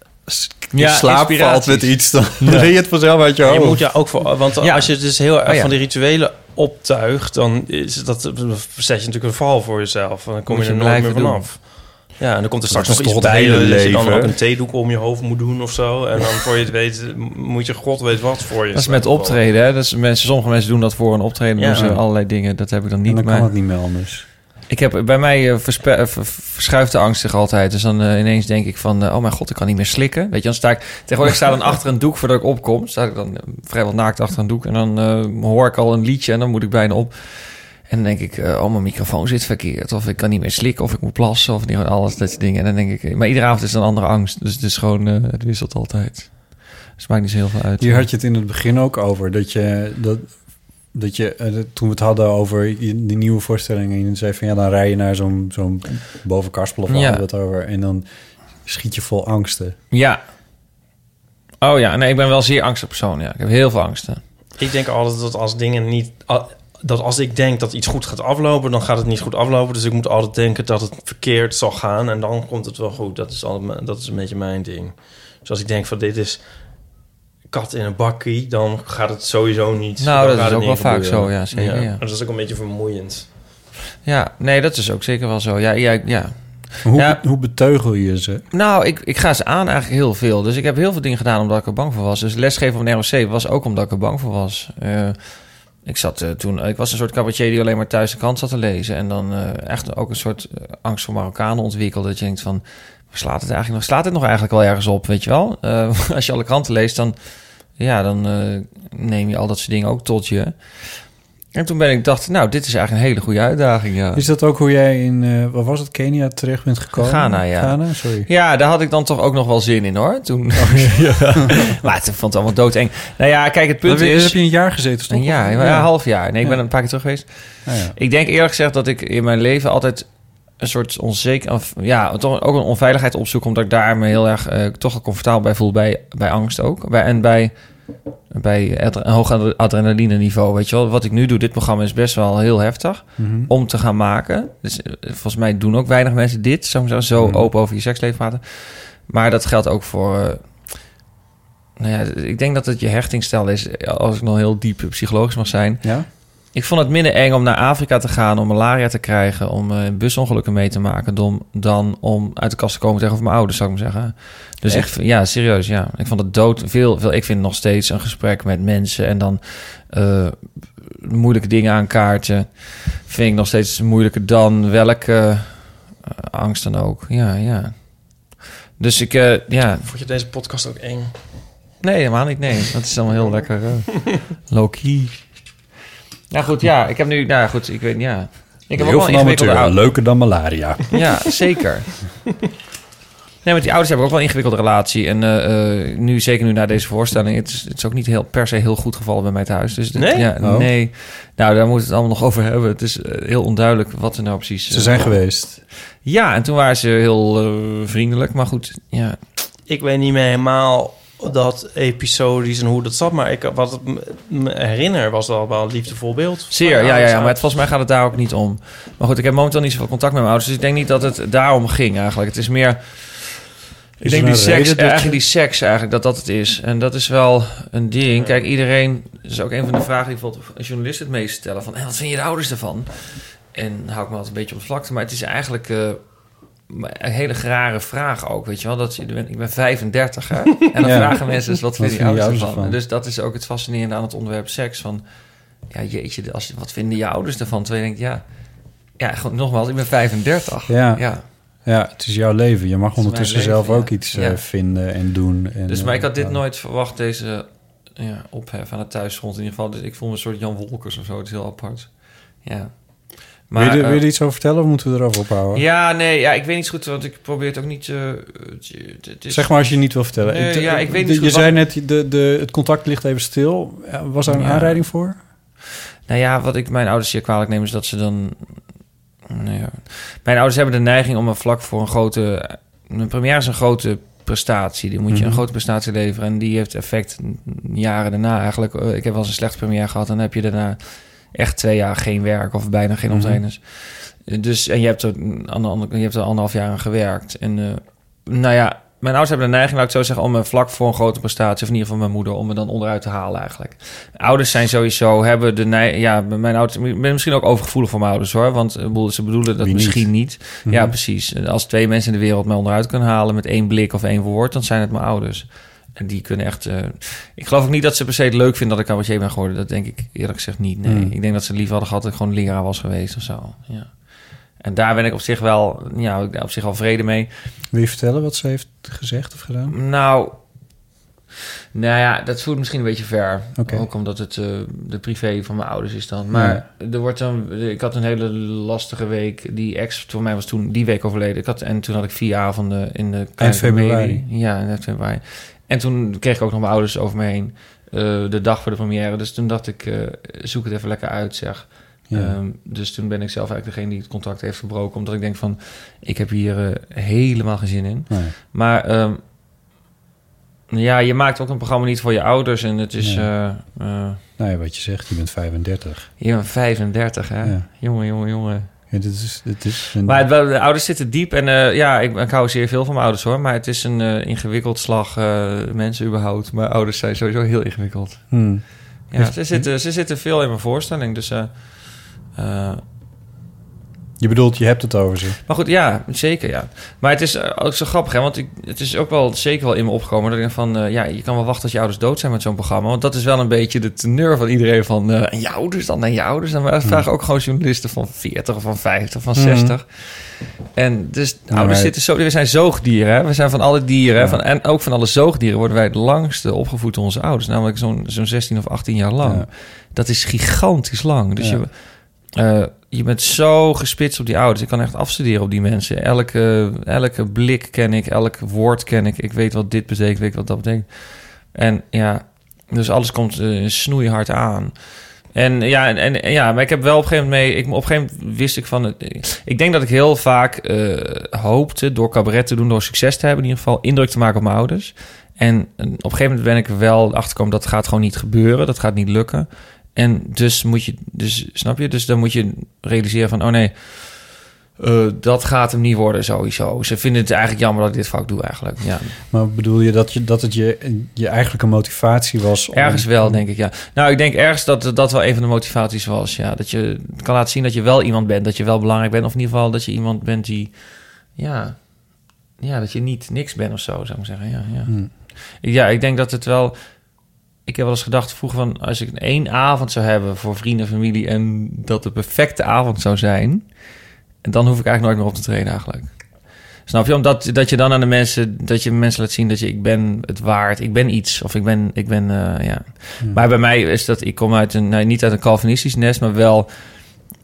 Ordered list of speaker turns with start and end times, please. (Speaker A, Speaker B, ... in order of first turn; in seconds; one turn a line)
Speaker A: 0.3-3.8
Speaker B: 0.7-2.1
Speaker C: 3.4-19.4
Speaker B: 4.6-5.7
Speaker B: 10.5-11.5
Speaker A: 12.7-14.4
Speaker B: 18.7-23.5
Speaker C: 21.6-21.9
Speaker A: 21.7-22.1
Speaker A: 23.0-24.3
Speaker B: 24.7-48.1
Speaker A: 47.8-58.1
Speaker B: 56.9-57.2
Speaker A: 58.6-59.8
Speaker B: 59.9-60.2
Speaker B: 61.6-64.2
Speaker C: 64.6-76.9
Speaker C: 77.5-83.3
Speaker B: 80.0-82.0
Speaker B: 84.0-87.2
Speaker A: 86.8-88.4
Speaker B: 88.5-114.2
Speaker A: 114.1-118.3
Speaker B: 117.0-150.8
Speaker A: 120.6-120.9
Speaker A: 123.8-126.6
Speaker A: 127.7-128.0
Speaker A: 143.2-143.5
Speaker A: 147.2-147.5
Speaker B: 151.8-179.9
Speaker A: 155.8-156.1
Speaker A: 164.7-164.9
Speaker C: 179.8-181.5
Speaker B: 181.8-185.3
Speaker B: 186.3-189.9
Speaker A: 188.7-191.0
Speaker B: 190.9-191.9
Speaker B: 193.4-205.2
Speaker C: 199.9-200.3
Speaker A: 200.4-200.7
Speaker A: 204.7-205.6
Speaker B: 206.0-209.2
Speaker C: 209.7-217.5
Speaker B: 216.5-223.4
Speaker A: 224.0-225.2
Speaker B: 224.0-245.1
Speaker A: 240.8-242.8
Speaker B: 245.7-248.2
Speaker B: 248.9-251.2
Speaker A: 250.7-256.4
Speaker B: 253.0-254.4
Speaker B: 255.7-264.0
Speaker A: 263.5-265.6
Speaker B: 265.5-271.6
Speaker A: 269.3-275.2
Speaker B: 274.3-274.9
Speaker B: 276.1-278.6
Speaker B: 279.3-327.3
Speaker A: 285.1-285.4
Speaker A: 293.1-293.4
Speaker A: 309.6-310.9
Speaker A: 320.8-321.1
Speaker A: 327.7-329.8
Speaker B: 329.7-330.4
Speaker B: 331.7-359.2
Speaker A: 333.6-333.9
Speaker A: 336.3-336.6
Speaker A: 343.4-344.2
Speaker A: 352.1-352.4
Speaker A: 358.1-358.4
Speaker B: 360.7-364.2
Speaker A: 363.0-363.3
Speaker A: 364.4-366.1
Speaker B: 366.2-368.7
Speaker A: 368.9-370.3
Speaker B: 370.0-382.8
Speaker A: 378.3-379.7
Speaker A: 384.2-385.4
Speaker B: 385.5-449.2
Speaker A: 399.4-399.8
Speaker A: 401.5-401.9
Speaker A: 409.2-409.5
Speaker A: 411.4-411.6
Speaker A: 449.3-453.4
Speaker B: 452.7-473.9
Speaker A: 464.9-465.1
Speaker B: 474.4-487.1